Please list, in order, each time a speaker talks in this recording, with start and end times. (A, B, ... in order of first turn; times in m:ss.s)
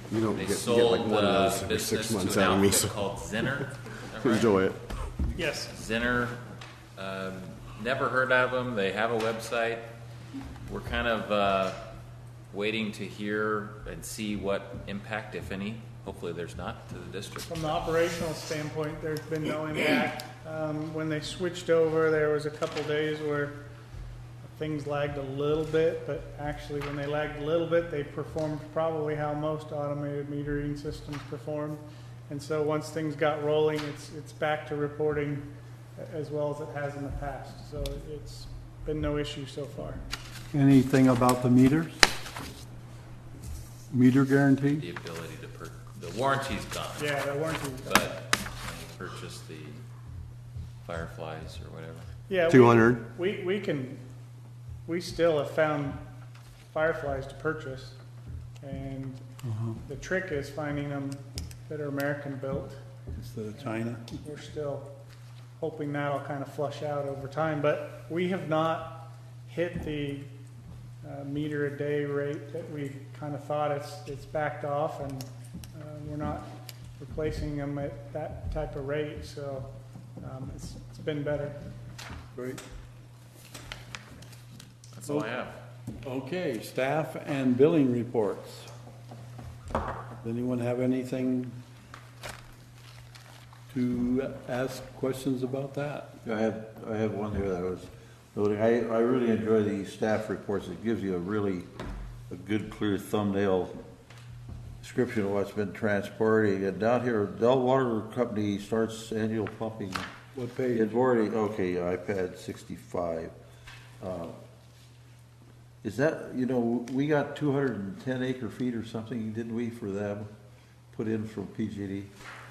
0:00.1-0:02.9 A
0:00.3-0:04.7 B
0:04.2-0:04.8 A
0:05.4-0:05.7 C
0:05.6-0:06.4 B
0:07.0-0:09.9 B
0:10.7-0:11.8 B
0:12.5-0:17.9 B
0:17.5-0:23.7 C
0:24.4-0:40.0 C
0:40.5-0:42.0 D
0:43.9-0:44.8 D
0:44.8-0:47.2 B
0:47.0-0:48.1 C
0:47.8-0:49.8 B
0:50.8-0:52.1 B
0:52.3-0:54.0 C
0:52.5-0:53.0 A
0:54.9-0:56.0 C
0:56.7-0:58.0 C
0:58.6-0:59.3 C
0:59.5-0:59.8 D
0:59.9-1:02.8 C
1:03.1-1:04.2 D
1:04.2-1:04.9 C
1:05.6-1:10.3 C
1:11.0-1:21.6 C
1:22.4-1:22.6 D
1:24.9-1:25.6 B
1:26.0-1:28.7 D
1:30.2-1:31.6 D
1:33.7-1:36.1 D
1:36.2-1:41.7 E
1:42.3-1:43.8 E
1:44.8-1:50.1 E
1:50.4-1:50.9 D
1:50.7-1:53.3 E
1:54.0-1:54.4 E
1:55.8-2:00.3 E
2:00.9-2:02.1 E